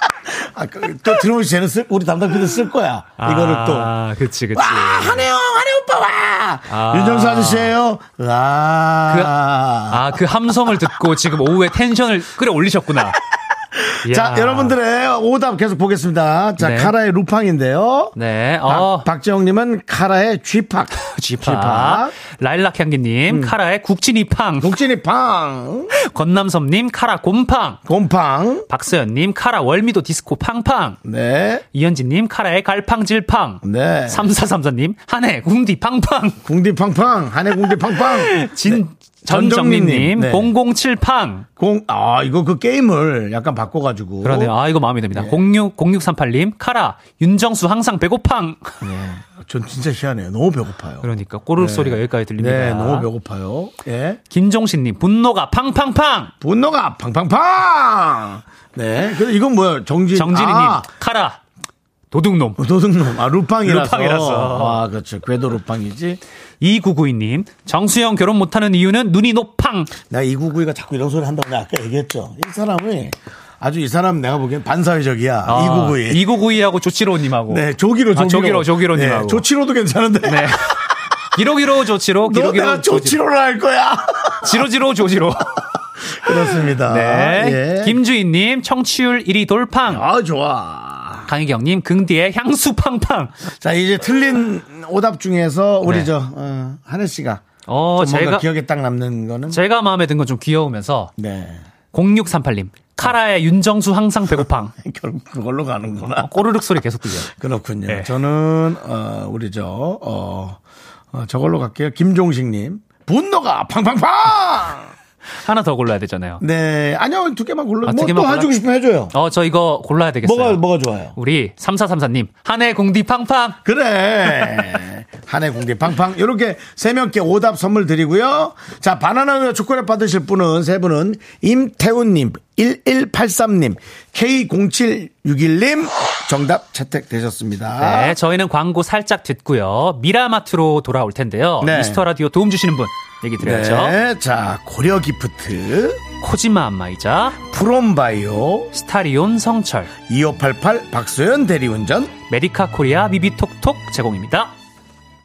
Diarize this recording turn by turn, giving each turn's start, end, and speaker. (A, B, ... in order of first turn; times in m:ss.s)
0:00.2-0:03.9 A
0:03.2-0:05.3 B
0:04.5-0:10.1 A
0:06.7-0:07.7 B
0:09.1-0:09.3 B
0:09.9-0:13.2 B
0:13.8-0:18.1 A
0:14.0-0:14.8 B
0:16.6-0:16.9 B
0:18.1-0:19.1 B
0:18.6-0:22.1 A
0:21.1-0:24.7 B
0:23.3-0:23.5 A
0:24.6-0:25.9 A
0:26.0-0:27.8 B
0:27.8-0:28.7 A
0:28.7-0:31.0 B
0:31.0-0:31.6 A
0:31.7-0:36.4 B
0:33.6-0:34.3 A
0:36.4-0:40.5 A
0:37.9-0:41.4 B
0:41.6-0:44.5 A
0:44.2-0:48.8 B
0:45.1-0:45.4 A
0:48.8-0:51.0 A
0:51.0-0:53.1 B
0:51.6-0:54.2 A
0:54.3-0:56.3 B
0:56.4-1:00.9 A
1:00.1-1:01.4 B
1:02.1-1:02.6 B
1:02.6-1:06.2 A
1:03.6-1:04.8 B
1:06.6-1:09.9 B
1:10.0-1:16.3 A
1:15.5-1:17.6 B
1:17.5-1:20.9 A
1:18.1-1:19.4 B
1:20.2-1:20.7 B
1:21.3-1:23.2 B
1:22.2-1:24.6 A
1:24.4-1:25.5 B
1:26.1-1:28.0 A
1:26.8-1:30.0 B
1:29.9-1:31.3 A
1:31.3-1:33.3 B
1:33.6-1:37.4 A
1:37.7-1:38.4 B
1:38.0-1:39.6 A
1:39.5-1:41.1 B
1:41.2-1:41.6 A
1:41.9-1:44.7 B
1:44.4-1:46.4 A
1:46.2-1:47.3 B
1:47.2-1:50.6 A
1:47.9-1:48.1 B
1:51.1-1:54.9 A
1:55.4-1:56.4 B
1:56.4-1:59.1 A
1:57.8-1:58.5 B
1:59.1-2:00.6 B
2:00.2-2:01.1 A
2:01.1-2:03.6 B
2:03.6-2:18.2 A
2:17.8-2:24.0 B
2:21.6-2:22.0 A
2:23.4-2:26.0 A
2:26.2-2:27.4 B
2:27.4-2:28.7 A
2:28.7-2:29.9 B
2:30.1-2:32.1 A
2:32.3-2:34.5 B